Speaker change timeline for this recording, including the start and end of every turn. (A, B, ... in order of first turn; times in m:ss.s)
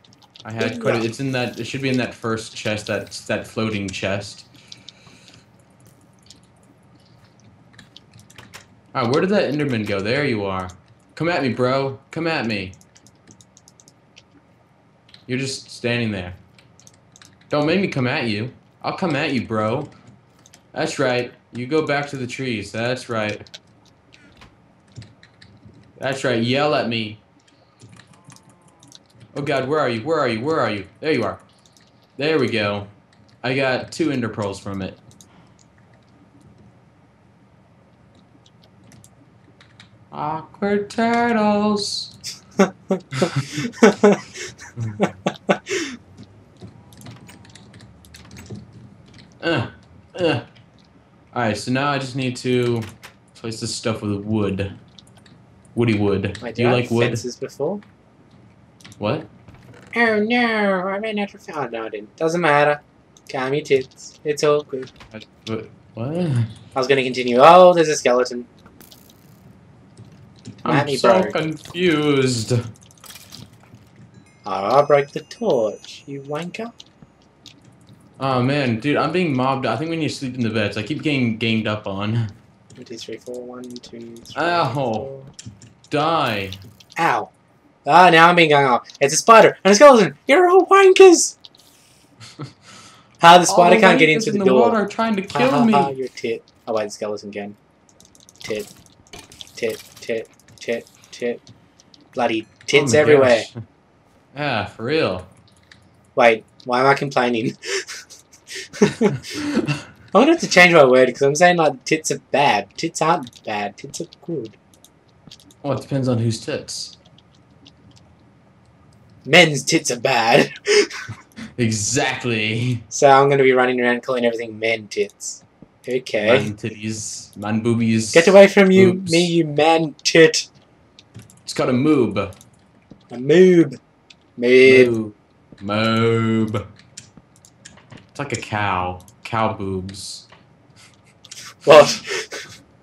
0:00.4-0:04.5 A
0:00.6-0:01.0 B
0:08.9-0:12.8 A
0:15.3-0:16.4 A
0:17.5-0:19.9 A
0:20.7-0:23.4 A
0:26.0-0:27.2 A
0:29.3-0:31.4 A
0:32.2-0:32.9 A
0:33.4-0:35.0 A
0:40.1-0:42.1 A
0:42.6-0:44.2 B
0:45.0-0:45.8 B
0:49.4-0:50.4 A
0:51.3-0:54.7 A
0:55.7-0:57.2 A
0:56.4-0:57.8 B
0:59.0-0:59.3 A
0:59.9-1:04.9 B
1:05.1-1:06.5 A
1:06.7-1:08.5 B
1:10.6-1:12.6 A
1:10.6-1:11.4 B
1:14.4-1:16.7 B
1:18.2-1:22.3 A
1:22.8-1:25.3 B
1:24.3-1:25.1 A
1:25.9-1:26.6 A
1:27.0-1:27.3 B
1:27.8-1:31.4 B
1:33.2-1:34.8 B
1:33.4-1:35.9 A
1:35.3-1:37.6 B
1:38.4-1:38.7 B
1:39.6-1:41.4 B
1:42.1-1:43.5 B
1:42.7-1:43.6 A
1:44.3-1:45.3 A
1:46.1-1:48.0 B
1:48.8-1:49.2 B
1:49.3-1:49.7 A
1:50.1-1:54.6 B
1:55.6-1:57.0 A
1:59.2-2:00.9 B
2:01.6-2:02.8 A
2:02.9-2:06.5 B
2:06.2-2:09.3 A
2:08.1-2:10.5 B
2:11.4-2:12.3 A
2:13.1-2:13.8 B
2:14.4-2:14.9 B
2:14.6-2:16.6 A
2:18.1-2:20.3 A
2:21.6-2:22.5 B